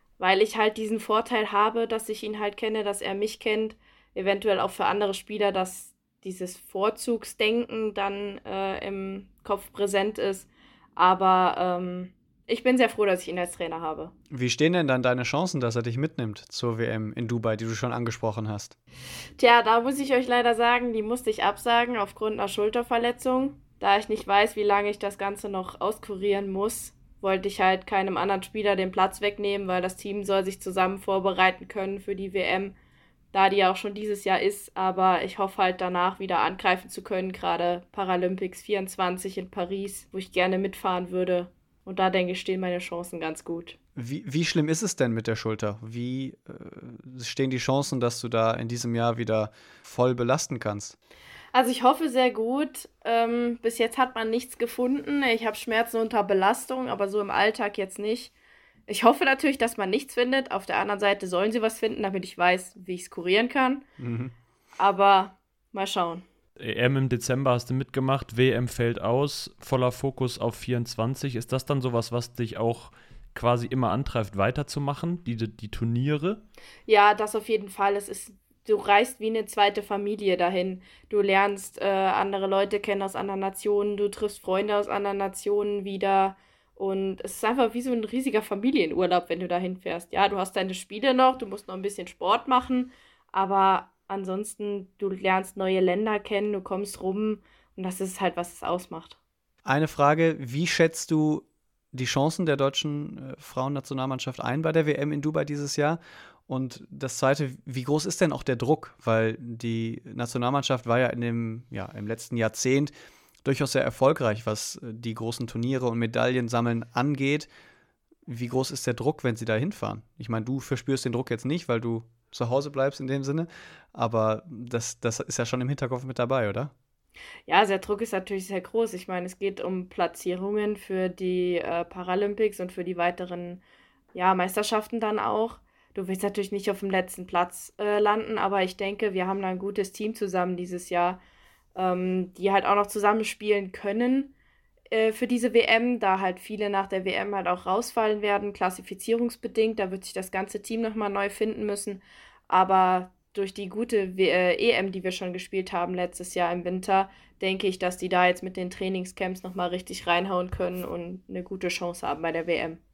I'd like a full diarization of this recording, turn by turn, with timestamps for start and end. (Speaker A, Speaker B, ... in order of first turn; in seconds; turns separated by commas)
Speaker A: 0.2-14.1, Speaker B: 14.3-18.8, Speaker A: 19.4-32.7, Speaker A: 33.3-43.8, Speaker B: 44.0-51.0, Speaker A: 51.5-58.3, Speaker A: 58.9-63.8, Speaker B: 64.0-64.3, Speaker A: 64.8-66.2, Speaker C: 66.6-76.4, Speaker A: 76.9-99.2, Speaker B: 99.6-112.9, Speaker B: 113.4-117.5, Speaker B: 118.2-126.7, Speaker A: 127.5-133.6, Speaker A: 134.1-141.2, Speaker A: 141.8-144.3, Speaker A: 144.9-162.8